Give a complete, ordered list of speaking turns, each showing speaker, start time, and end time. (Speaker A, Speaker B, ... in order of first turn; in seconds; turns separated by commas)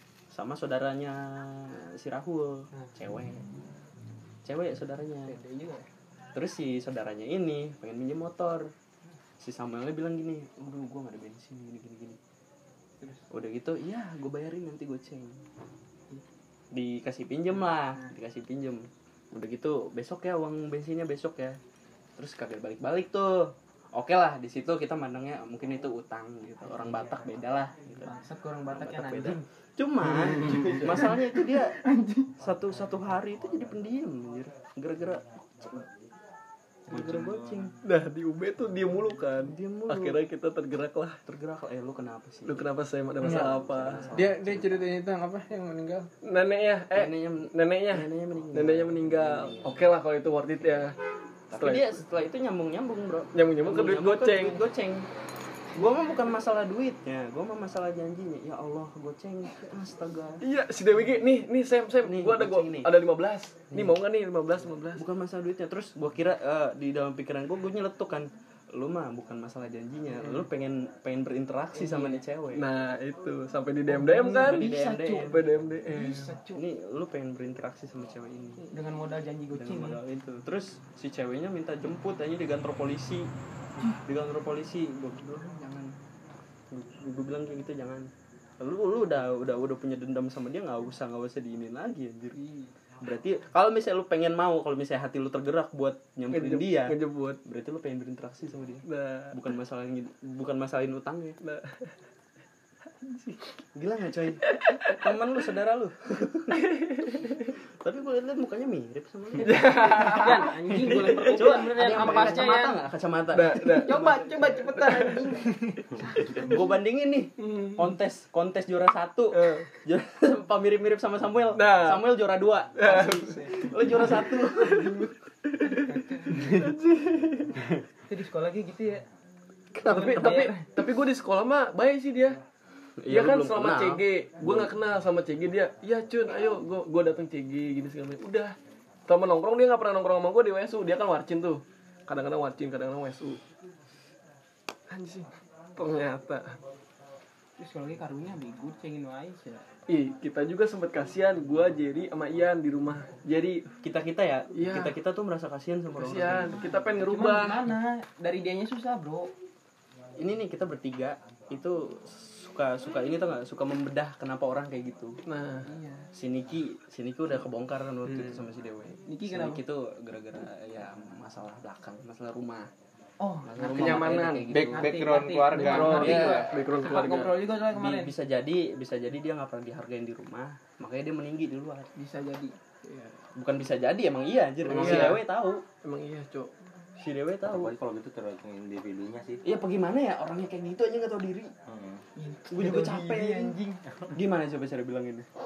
Speaker A: 0.3-3.4, Speaker A: 4.4-5.3, Speaker B: 5.2-5.8, Speaker A: 6.3-8.7, Speaker A: 9.4-12.2, Speaker A: 13.3-15.4, Speaker A: 16.7-21.6, Speaker A: 22.2-28.1, Speaker B: 28.0-29.4, Speaker A: 28.7-31.8, Speaker B: 30.2-32.3, Speaker A: 32.4-35.9, Speaker A: 36.9-37.7, Speaker C: 37.8-41.2, Speaker A: 39.5-40.2, Speaker A: 41.2-42.7, Speaker C: 42.5-44.0, Speaker D: 43.2-43.5, Speaker A: 43.2-44.9, Speaker D: 44.1-46.1, Speaker C: 46.2-50.9, Speaker A: 46.9-49.8, Speaker A: 51.5-55.1, Speaker C: 51.5-51.9, Speaker C: 53.3-54.6, Speaker A: 55.7-60.4, Speaker C: 60.4-65.0, Speaker A: 62.0-62.9, Speaker A: 63.7-64.0, Speaker A: 65.0-72.7, Speaker B: 71.7-72.2, Speaker C: 72.5-76.3, Speaker B: 73.9-76.6, Speaker A: 74.3-75.4, Speaker A: 76.5-78.7, Speaker B: 78.6-80.0, Speaker A: 79.5-83.3, Speaker A: 84.0-85.7, Speaker B: 85.4-85.9, Speaker A: 86.7-92.4, Speaker B: 92.3-92.7, Speaker A: 93.0-101.4, Speaker C: 96.3-97.4, Speaker C: 98.8-99.3, Speaker C: 101.4-101.8, Speaker A: 103.7-106.6, Speaker C: 104.4-105.1, Speaker C: 106.6-107.5, Speaker A: 107.8-114.7, Speaker C: 109.4-111.6, Speaker B: 110.1-112.8, Speaker C: 113.3-114.2, Speaker B: 113.7-116.8, Speaker C: 114.7-115.3, Speaker A: 116.2-125.1, Speaker B: 117.4-117.9, Speaker C: 119.3-119.7, Speaker C: 121.5-122.0, Speaker C: 122.8-125.0, Speaker B: 125.7-126.5, Speaker D: 126.3-126.7, Speaker C: 126.5-127.5, Speaker B: 128.1-129.0, Speaker A: 129.7-130.5, Speaker C: 129.9-132.4, Speaker B: 129.9-130.7, Speaker A: 133.0-134.7, Speaker C: 133.1-138.5, Speaker C: 139.1-143.4, Speaker C: 144.9-146.6, Speaker B: 147.6-149.6, Speaker C: 149.9-153.7, Speaker A: 153.8-156.7, Speaker C: 154.5-154.9, Speaker C: 156.0-157.6, Speaker B: 156.3-159.3, Speaker A: 160.2-165.2, Speaker C: 165.2-165.7, Speaker B: 165.7-166.0, Speaker A: 166.1-172.7, Speaker C: 168.1-168.4, Speaker B: 169.1-169.6, Speaker B: 173.2-178.1, Speaker A: 173.4-174.8, Speaker C: 173.7-174.6, Speaker D: 174.5-176.1, Speaker C: 175.5-177.3, Speaker A: 175.7-176.5, Speaker A: 177.7-181.9, Speaker B: 181.9-183.2, Speaker A: 183.3-185.6, Speaker C: 184.7-185.2, Speaker D: 184.8-185.1, Speaker C: 185.8-186.5, Speaker A: 187.0-187.7, Speaker E: 187.4-189.4, Speaker A: 189.4-191.5, Speaker E: 191.7-192.0, Speaker B: 192.2-193.8, Speaker A: 192.5-193.6, Speaker A: 194.1-195.3